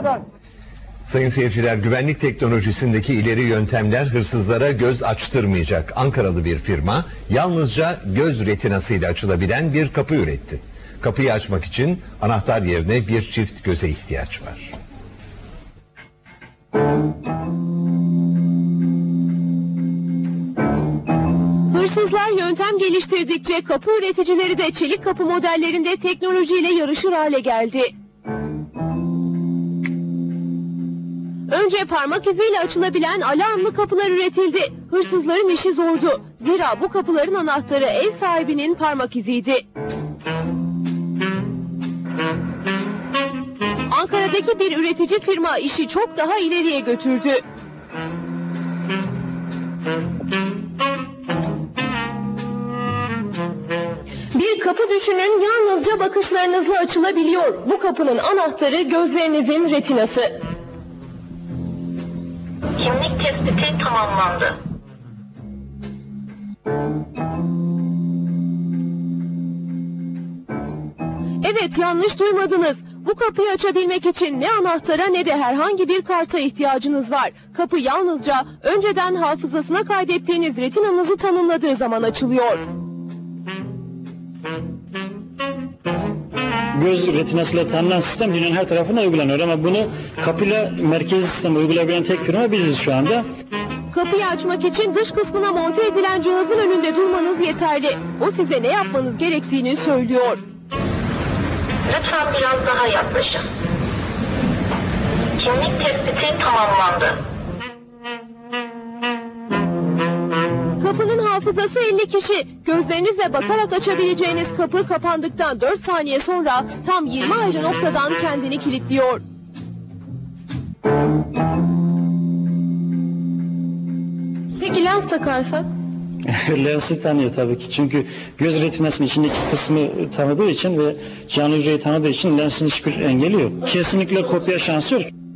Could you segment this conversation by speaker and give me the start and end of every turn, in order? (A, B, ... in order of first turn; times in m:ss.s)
0:01.0-0:14.7 A
0:21.7-0:27.9 B
0:31.5-0:39.6 B
0:43.9-0:47.4 B
0:54.3-1:00.4 B
1:02.8-1:04.6 C
1:11.4-1:22.6 B
1:26.7-1:33.2 D
1:33.9-1:40.4 B
1:41.8-1:43.4 C
1:45.4-1:47.2 C
1:50.8-1:59.2 B
2:04.6-2:05.7 B
2:06.3-2:15.1 D